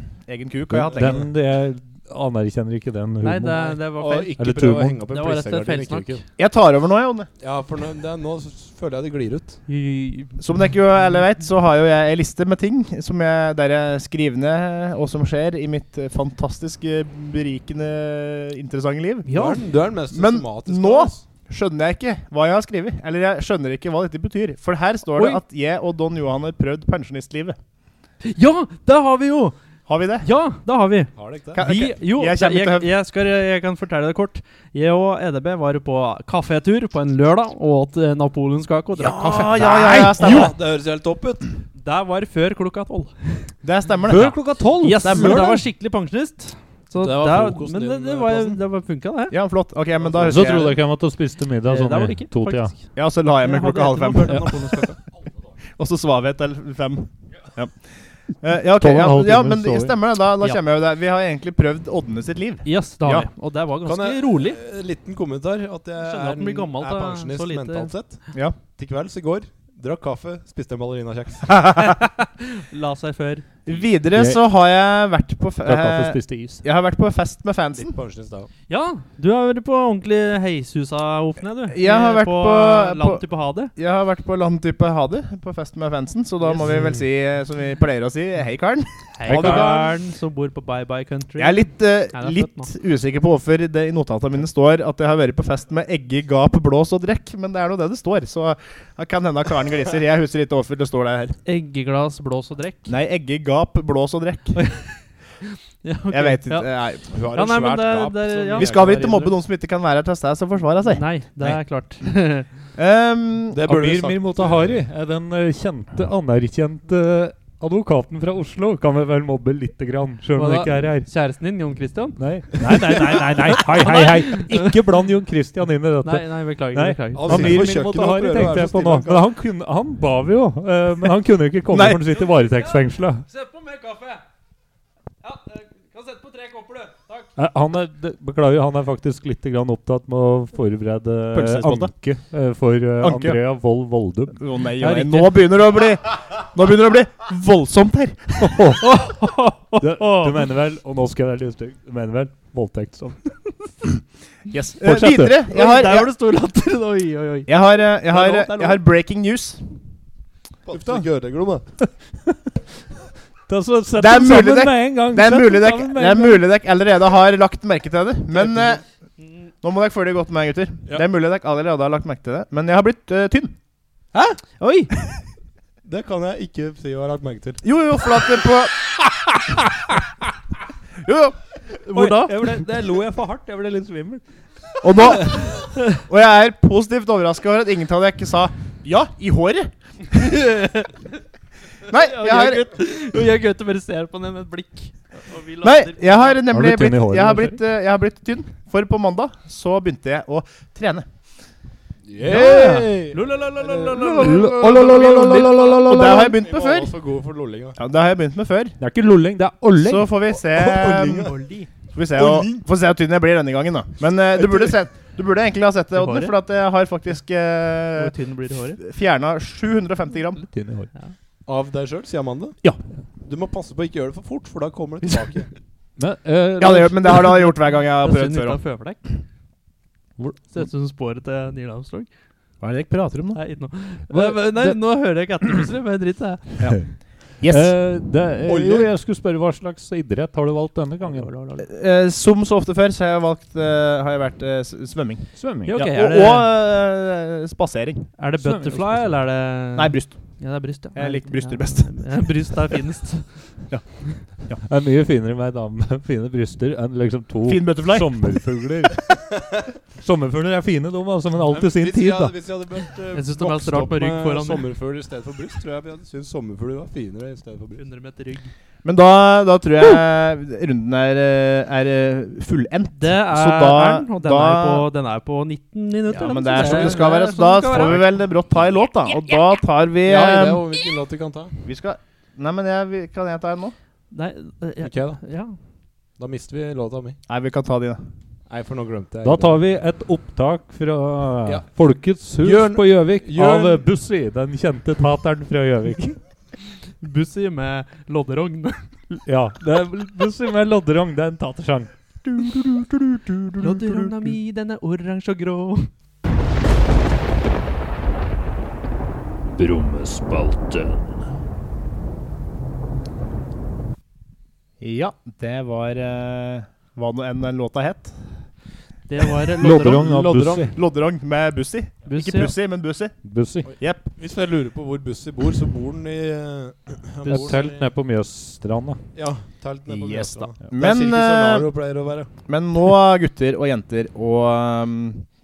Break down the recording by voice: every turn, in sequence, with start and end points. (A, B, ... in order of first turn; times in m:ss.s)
0:00.2-0:01.3 A
0:00.8-0:03.8 B
0:00.9-0:01.2 C
0:03.2-0:04.3 D
0:03.6-0:06.2 C
0:04.4-0:05.0 B
0:05.1-0:06.2 D
0:06.4-0:07.3 A
0:07.4-0:09.6 C
0:09.7-0:10.4 D
0:10.4-0:19.3 A
0:19.2-0:19.6 D
0:19.3-0:21.2 C
0:20.1-0:27.6 A
0:25.1-0:25.4 D
0:28.2-0:29.5 D
0:29.9-0:30.2 A
0:30.2-0:40.5 D
0:31.2-0:31.6 C
0:31.5-0:32.9 A
0:39.0-0:40.5 A
0:39.9-0:41.5 C
0:41.8-0:43.5 D
0:43.6-0:45.6 A
0:44.1-0:45.6 B
0:44.8-0:49.4 D
0:47.0-0:48.6 C
0:49.3-0:50.8 A
0:50.0-0:50.3 C
0:50.2-0:52.7 B
0:51.7-0:52.9 D
0:52.9-0:54.9 A
0:53.4-0:54.9 D
0:55.8-0:57.8 A
0:58.4-1:03.3 A
0:58.8-1:00.0 B
1:02.6-1:04.6 D
1:03.8-1:08.2 C
1:06.0-1:07.9 D
1:08.7-1:11.6 C
1:11.5-1:12.0 A
1:11.8-1:13.5 D
1:13.6-1:17.9 A
1:14.1-1:14.4 B
1:15.6-1:16.6 B
1:17.7-1:18.5 C
1:18.7-1:23.7 D
1:21.7-1:23.2 A
1:23.8-1:29.9 A
1:26.6-1:27.0 C
1:29.2-1:32.7 D
1:29.3-1:29.8 B
1:31.4-1:41.4 A
1:41.4-1:42.9 D
1:42.9-1:44.6 A
1:44.6-1:46.7 D
1:46.1-1:47.1 A
1:47.1-1:49.3 C
1:47.3-1:49.2 D
1:48.5-1:51.6 A
1:50.9-1:52.5 D
1:52.8-1:53.6 A
1:53.5-1:54.8 C
1:53.6-2:01.1 B
2:00.4-2:04.8 D
2:02.2-2:13.2 B
2:06.0-2:07.6 D
2:07.1-2:09.3 C
2:07.3-2:07.6 A
2:11.7-2:12.0 A
2:12.3-2:14.2 D
2:15.2-2:17.3 D
2:17.4-2:25.4 B
2:21.3-2:21.9 A
2:23.0-2:23.4 A
2:24.4-2:28.6 A
2:28.4-2:29.0 B
2:28.8-2:30.4 D
2:29.8-2:33.3 B
2:34.5-2:36.1 A
2:34.8-2:35.4 B
2:35.5-2:38.8 D
2:37.5-2:39.6 A
2:40.7-2:41.6 C
2:40.7-2:41.1 B
2:41.8-2:42.5 B
2:43.5-2:46.4 B
2:44.0-2:48.8 A
2:48.3-2:48.8 C
2:49.6-2:53.5 A
2:54.1-2:54.9 D
2:55.8-2:57.6 C
2:57.6-2:58.7 A
3:01.0-3:01.4 A
3:01.8-3:02.6 D
3:01.9-3:04.2 B
3:04.8-3:09.7 A
3:05.5-3:06.0 D
3:10.1-3:11.2 D
3:11.9-3:12.7 A
3:11.9-3:16.4 D
3:15.6-3:21.0 A
3:16.5-3:17.6 B
3:22.0-3:27.8 C
3:22.2-3:22.8 B
3:22.3-3:24.6 D
3:24.2-3:26.3 B
3:25.8-3:26.9 A
3:27.8-3:28.8 A
3:28.8-3:30.1 B
3:29.8-3:31.4 A
3:30.5-3:31.4 C
3:31.2-3:31.7 D
3:31.9-3:38.1 A
3:32.2-3:32.6 C
3:34.3-3:34.7 C
3:36.0-3:36.3 D
3:38.0-3:38.8 D
3:38.8-3:40.4 A
3:40.5-3:40.9 B
3:41.4-3:42.6 C
3:43.2-3:45.5 C
3:46.0-3:47.4 B
3:46.6-3:48.6 A
3:48.0-3:49.0 D
3:50.2-3:50.6 B
3:50.5-3:52.1 D
3:52.6-3:53.4 A
3:53.3-3:56.6 D
3:54.1-3:54.8 B
3:57.4-3:57.8 A
3:57.5-4:01.3 B
3:58.5-3:58.9 C
4:01.1-4:01.6 D
4:01.6-4:08.1 A
4:05.4-4:05.8 B
4:05.7-4:06.5 D
4:08.2-4:13.6 D
4:08.4-4:09.2 B
4:09.7-4:10.4 A
4:10.9-4:12.6 A
4:13.7-4:14.6 A
4:14.6-4:19.4 B
4:17.5-4:18.3 A
4:20.0-4:22.3 B
4:21.5-4:27.8 C
4:23.1-4:24.7 D
4:27.8-4:28.5 D
4:28.8-4:34.9 A
4:33.0-4:38.1 D
4:36.1-4:40.6 A
4:36.6-4:37.0 C
4:40.0-4:41.6 C
4:41.6-4:43.7 A
4:44.1-4:45.5 D
4:44.8-4:45.2 C
4:46.2-4:47.2 C
4:47.3-4:48.0 A
4:48.5-4:49.6 C
4:49.2-4:56.2 B
4:52.4-4:53.8 C
4:57.0-4:58.9 D
4:59.2-5:04.3 B
5:03.6-5:05.9 D
5:09.5-5:11.2 B
5:14.8-5:18.4 A
5:19.1-5:20.1 D
5:19.6-5:20.8 B
5:19.8-5:20.7 C
5:20.6-5:23.2 A
5:22.1-5:22.5 D
5:23.2-5:23.7 B
5:23.7-5:27.8 C
5:23.7-5:24.1 A
5:27.2-5:29.0 B
5:29.1-5:32.3 C
5:29.9-5:31.7 A
5:32.5-5:35.2 A